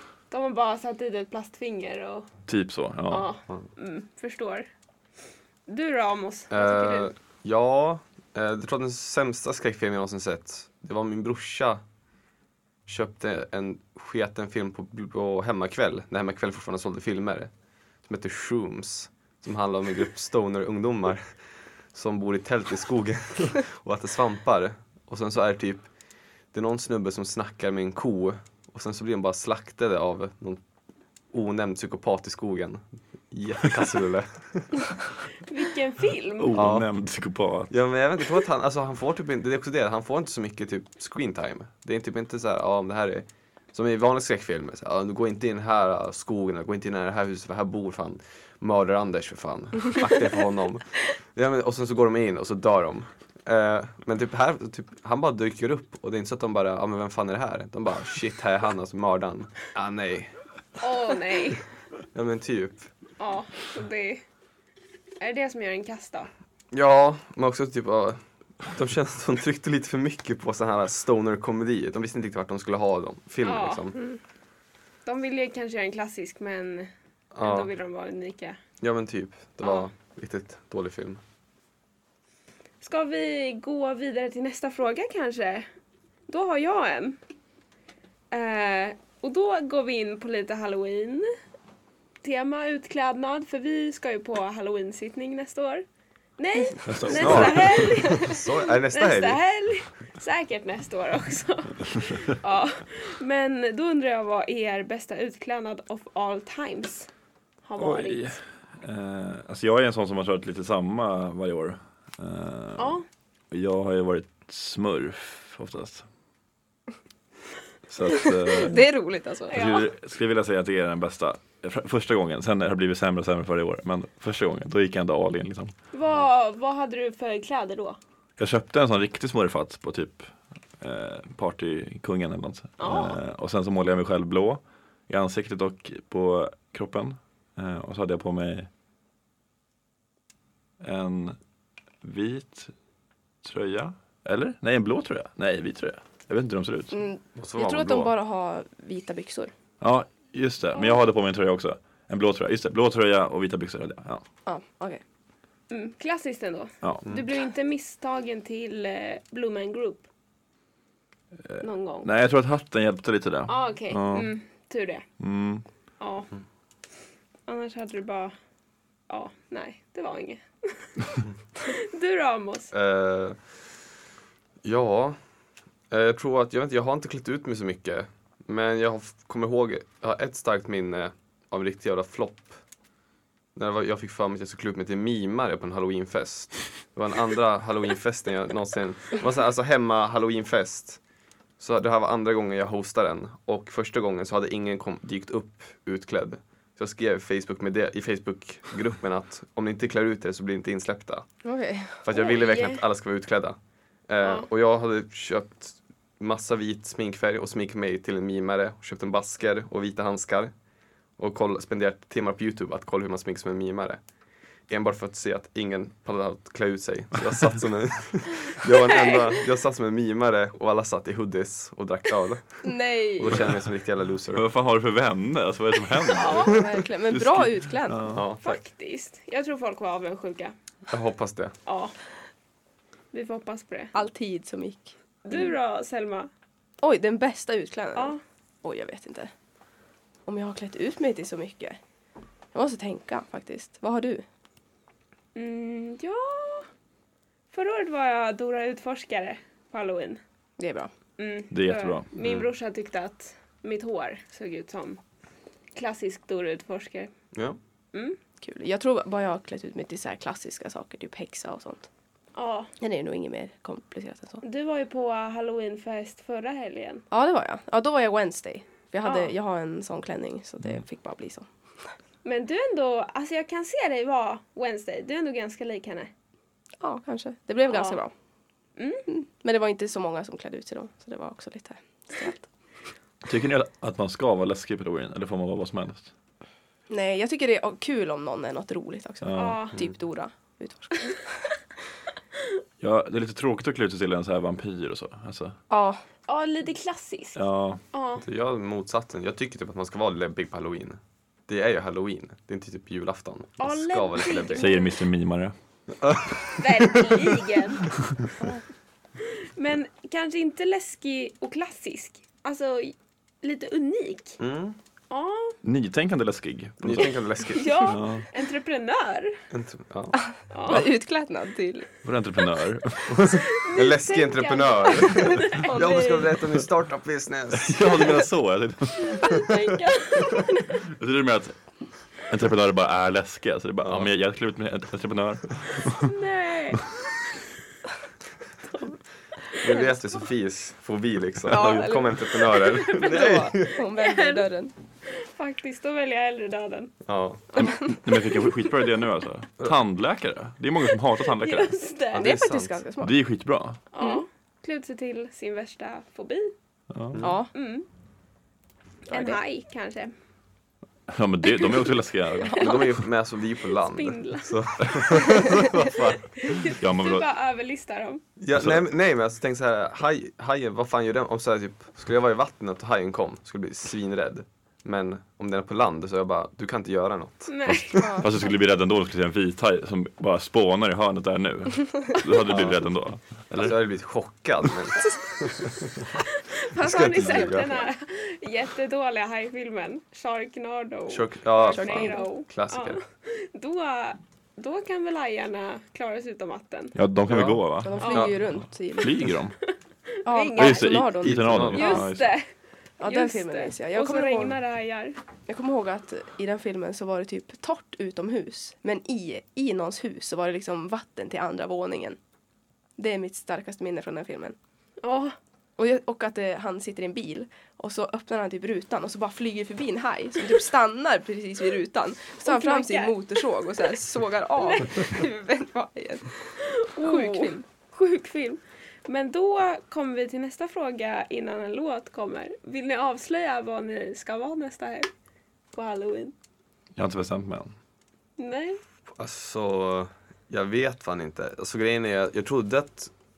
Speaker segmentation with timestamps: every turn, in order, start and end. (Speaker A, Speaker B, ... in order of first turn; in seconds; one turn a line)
Speaker A: 0.3-2.3
Speaker B: 2.5-3.3
Speaker A: 3.1-4.7
Speaker A: 5.7-7.1
Speaker C: 6.5-11.8
Speaker C: 12.9-17.5
Speaker C: 18.1-21.3
Speaker C: 21.9-25.9
Speaker C: 26.5-30.6
Speaker C: 31.3-34.7
Speaker A: 35.5-36.5
Speaker B: 36.4-37.7
Speaker C: 36.5-36.9
Speaker C: 37.7-60.3
Speaker A: 60.8-61.6
Speaker C: 62.1-62.9
Speaker A: 63.2-64.2
Speaker A: 65.2-66.3
Speaker C: 66.7-74.0
Speaker A: 73.4-73.9
Speaker A: 75.0-78.6
Speaker C: 77.3-77.7
Speaker C: 78.8-81.2
Speaker A: 82.8-85.7
Speaker A: 86.3-87.2
Speaker A: 88.3-91.3
Speaker A: 92.2-95.8
Speaker A: 96.4-107.1
Speaker B: 96.9-98.1
Speaker C: 97.1-99.4
Speaker A: 107.7-108.3
Speaker B: 107.8-116.0
Speaker A: 112.8-113.0
Speaker B: 117.9-118.9
Speaker D: 118.4-119.7
Speaker A: 119.5-119.9
Speaker B: 119.5-125.7
Speaker A: 125.9-128.0
Speaker B: 128.4-138.7
Speaker A: 132.8-133.2
Speaker B: 140.8-141.4
Speaker B: 142.0-142.7
Speaker B: 143.4-146.9
Speaker D: 146.9-149.5
Speaker C: 147.4-148.1
Speaker B: 149.8-154.2
Speaker D: 154.5-155.0
Speaker A: 155.7-160.0
Speaker B: 161.4-164.3
Speaker A: 161.6-162.1
Speaker A: 163.5-165.1
Speaker B: 165.2-165.7
Speaker A: 166.0-166.3
Speaker A: 167.5-168.3
Speaker A: 169.1-172.7
Speaker C: 172.7-173.4
Speaker C: 174.6-175.2
Speaker C: 175.9-182.6
Speaker C: 183.6-191.0
Speaker C: 191.6-201.2
Speaker D: 201.4-202.0
Speaker C: 202.0-203.6
Speaker A: 202.1-202.8
Speaker C: 204.1-210.5
Speaker C: 211.2-214.0
Speaker C: 214.7-224.4
Speaker A: 218.8-219.3
Speaker D: 222.6-223.4
Speaker B: 224.3-228.2
Speaker A: 226.1-226.6
Speaker D: 226.4-228.1
Speaker C: 228.1-228.6
Speaker A: 228.4-230.5
Speaker C: 230.9-231.6
Speaker A: 231.7-231.9
Speaker A: 233.1-233.9
Speaker D: 233.9-234.9
Speaker A: 235.2-236.3
Speaker D: 236.8-239.3
Speaker D: 240.3-241.8
Speaker D: 242.5-244.2
Speaker A: 245.3-246.7
Speaker A: 247.5-250.2
Speaker D: 250.6-250.9
Speaker A: 251.2-255.0
Speaker B: 251.5-252.1
Speaker A: 255.8-257.1
Speaker D: 258.4-261.9
Speaker A: 262.4-262.7
Speaker D: 262.8-264.4
Speaker A: 264.4-267.0
Speaker D: 267.1-271.5
Speaker A: 269.1-269.3
Speaker A: 272.2-276.1
Speaker D: 276.8-278.1
Speaker A: 277.7-278.0
Speaker A: 278.8-279.0
Speaker D: 279.1-282.4
Speaker B: 283.2-286.1
Speaker D: 286.9-291.5
Speaker B: 289.2-289.7
Speaker A: 289.4-289.8
Speaker B: 292.8-295.6
Speaker D: 295.7-296.0
Speaker A: 296.3-297.4
Speaker B: 297.4-297.8
Speaker A: 297.9-298.2
Speaker C: 298.2-304.7
Speaker A: 303.6-305.0
Speaker B: 304.6-305.5
Speaker C: 306.0-307.1
Speaker A: 306.6-307.9
Speaker A: 309.2-314.4
Speaker C: 314.4-314.8
Speaker A: 315.1-315.6
Speaker B: 315.6-317.2
Speaker C: 316.8-317.9
Speaker A: 317.5-319.4
Speaker B: 317.8-318.3
Speaker C: 319.5-320.1
Speaker D: 320.2-321.9
Speaker A: 320.5-320.9
Speaker B: 322.0-323.3
Speaker C: 323.1-328.3
Speaker A: 323.3-325.8
Speaker D: 325.1-326.4
Speaker B: 327.5-329.5
Speaker A: 329.0-330.8
Speaker B: 330.7-331.6
Speaker B: 332.1-336.1
Speaker C: 333.8-334.1
Speaker A: 336.0-336.9
Speaker C: 339.6-343.7
Speaker D: 341.5-344.7
Speaker A: 342.6-344.5
Speaker A: 345.1-346.9
Speaker C: 347.1-347.6
Speaker A: 347.5-348.9
Speaker B: 347.6-351.8
Speaker A: 350.9-352.4
Speaker C: 352.1-352.8
Speaker D: 352.2-353.1
Speaker B: 353.0-353.8
Speaker A: 353.9-356.5
Speaker B: 356.9-357.2
Speaker D: 357.2-357.5
Speaker A: 357.5-357.9
Speaker D: 359.1-359.4
Speaker A: 359.1-360.1
Speaker B: 361.1-362.8
Speaker D: 362.5-362.8
Speaker C: 362.6-366.2
Speaker A: 363.8-365.7
Speaker A: 366.4-368.2
Speaker B: 366.6-367.3
Speaker C: 368.4-378.1
Speaker B: 368.6-368.8
Speaker A: 377.5-378.0
Speaker D: 378.0-378.3
Speaker B: 378.2-383.8
Speaker C: 382.5-382.8
Speaker C: 383.6-386.1
Speaker A: 386.5-396.9
Speaker C: 386.8-387.7
Speaker D: 387.2-387.8
Speaker C: 391.1-393.0
Speaker D: 391.7-392.3
Speaker B: 396.9-399.6
Speaker C: 397.3-398.4
Speaker D: 397.8-399.3
Speaker A: 398.0-398.3
Speaker D: 400.2-401.9
Speaker A: 400.3-401.1
Speaker B: 400.6-402.3
Speaker C: 401.2-402.1
Speaker A: 401.7-402.5
Speaker D: 403.0-404.6
Speaker A: 403.0-405.2
Speaker D: 405.5-412.2
Speaker D: 413.0-414.6
Speaker A: 415.0-415.4
Speaker D: 415.8-427.6
Speaker A: 422.4-423.4
Speaker A: 424.6-424.9
Speaker A: 426.6-435.1
Speaker A: 435.7-436.3
Speaker B: 437.0-437.7
Speaker A: 438.4-438.8
Speaker C: 439.2-443.1